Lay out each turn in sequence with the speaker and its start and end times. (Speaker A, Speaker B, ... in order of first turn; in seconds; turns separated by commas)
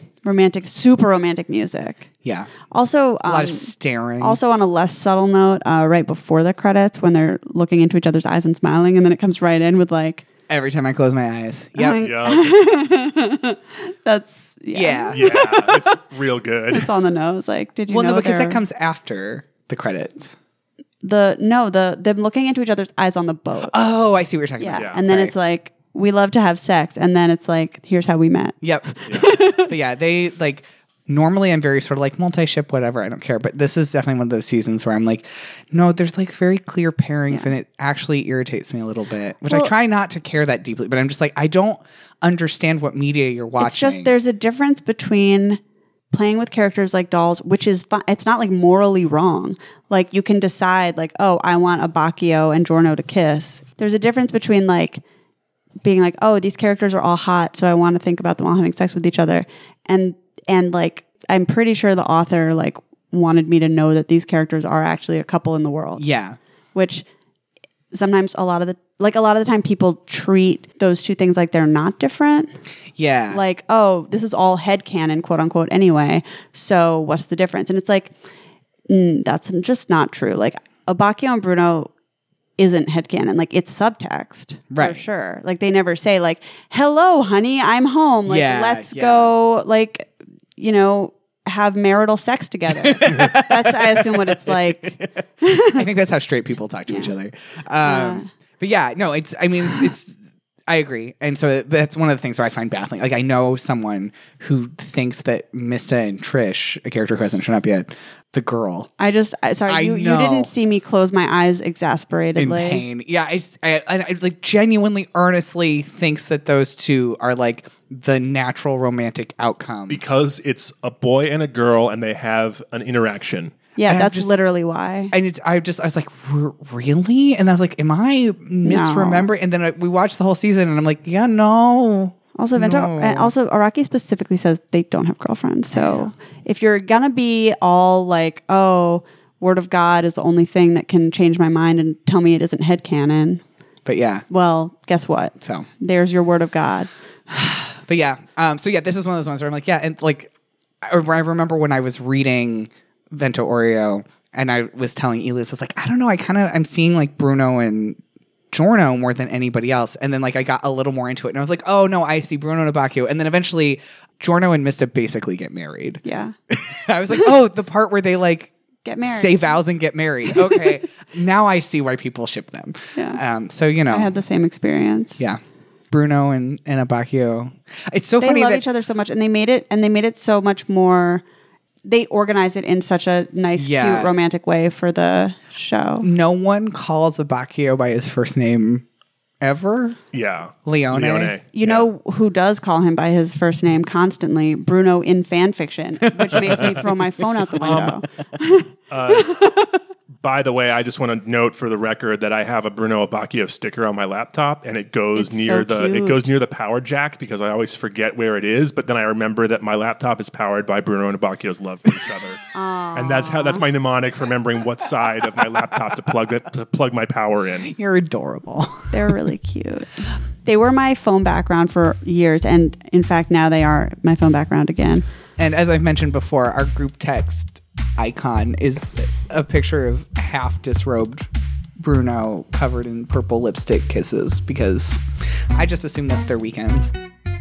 Speaker A: 0.2-2.1, Speaker B: 2.2-2.5, Speaker A: 2.7-10.2, Speaker B: 3.2-4.4, Speaker B: 10.5-12.0, Speaker A: 11.8-15.9, Speaker C: 12.0-12.5, Speaker B: 14.7-15.5, Speaker C: 15.1-16.9, Speaker A: 16.7-18.6, Speaker B: 17.9-20.4, Speaker A: 21.0-23.8, Speaker B: 23.7-25.3, Speaker A: 24.6-29.7, Speaker C: 24.8-25.0, Speaker B: 28.6-44.1, Speaker A: 43.6-45.6, Speaker A: 46.1-55.0, Speaker A: 55.8-66.0, Speaker B: 66.0-66.4, Speaker A: 66.8-67.0, Speaker A: 67.9-72.5, Speaker B: 73.0-73.4, Speaker A: 73.3-78.1, Speaker A: 78.9-81.9, Speaker A: 82.6-95.8, Speaker B: 84.7-85.0, Speaker B: 88.3-89.3, Speaker B: 92.8-95.1, Speaker B: 95.7-100.2, Speaker A: 97.8-98.2, Speaker B: 100.7-108.9, Speaker A: 109.0-112.8, Speaker B: 109.7-110.5, Speaker B: 112.4-120.0, Speaker C: 119.9-123.6, Speaker A: 123.8-125.1, Speaker B: 123.8-124.3, Speaker B: 125.1-133.3, Speaker A: 128.6-129.3, Speaker A: 132.4-143.4, Speaker B: 135.7-136.1, Speaker B: 143.9-144.3, Speaker A: 144.3-146.9, Speaker B: 145.4-145.7, Speaker B: 147.3-150.3, Speaker B: 150.8-158.0, Speaker B: 158.5-174.1, Speaker A: 166.1-166.3, Speaker A: 168.8-169.6, Speaker A: 170.4-170.7, Speaker A: 172.9-173.2, Speaker A: 173.9-175.2, Speaker B: 175.2-178.6, Speaker A: 178.2-181.2, Speaker A: 181.8-186.1, Speaker B: 183.6-184.1, Speaker B: 186.0-188.8, Speaker B: 189.4-190.0, Speaker C: 190.1-191.9, Speaker B: 190.7-191.4, Speaker A: 191.5-199.7, Speaker C: 197.6-198.0, Speaker C: 198.9-199.5, Speaker C: 200.2-212.4, Speaker A: 205.2-206.3, Speaker A: 212.5-213.6, Speaker C: 212.9-217.7, Speaker B: 217.7-219.1, Speaker A: 218.9-225.1, Speaker B: 225.4-235.0, Speaker B: 235.5-236.9